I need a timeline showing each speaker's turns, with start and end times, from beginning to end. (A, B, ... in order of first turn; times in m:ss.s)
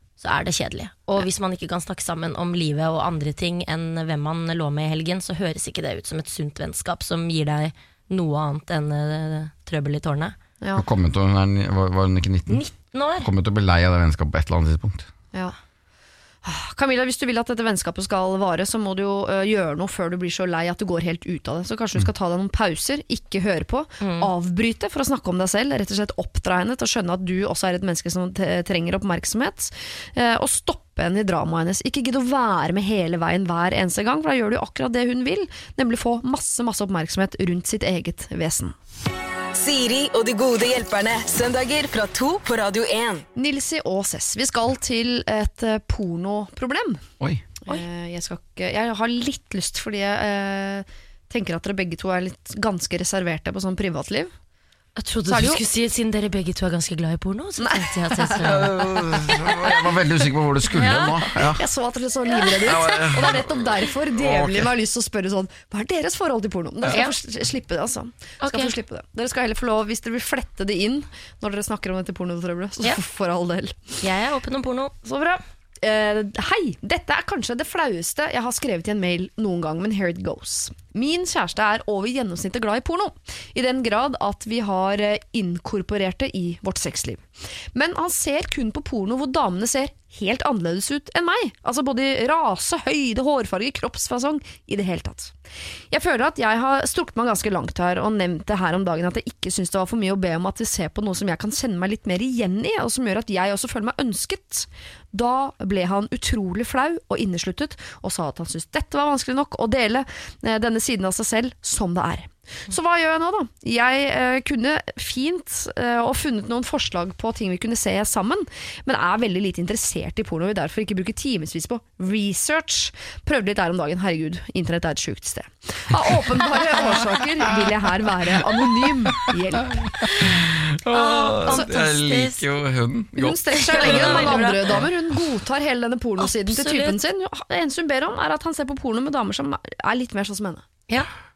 0:00.2-0:10.4 A
0:10.8-0:12.7 B
0:12.5-0:13.3 A
0:13.2-0:15.1 B
0:16.4-0:38.7 C
0:24.0-0:24.3 A
0:39.5-0:43.3 D
0:43.4-0:47.0 C
0:47.2-0:47.5 B
0:47.7-0:54.3 C
0:55.0-0:58.9 A
0:55.3-0:55.6 C
0:57.6-0:59.8 C
0:58.4-1:01.6 B
1:00.7-1:01.3 A
1:01.4-1:14.0 C
1:02.6-1:04.7 B
1:06.9-1:07.1 A
1:08.4-1:08.7 A
1:14.0-1:15.0 A
1:15.0-1:35.4 C
1:35.9-2:10.2 C
2:09.0-2:15.2 B
2:10.0-2:10.4 A
2:10.9-2:12.4 A
2:11.4-2:11.9 C
2:13.2-2:20.6 C
2:13.5-2:14.9 A
2:16.2-2:17.0 A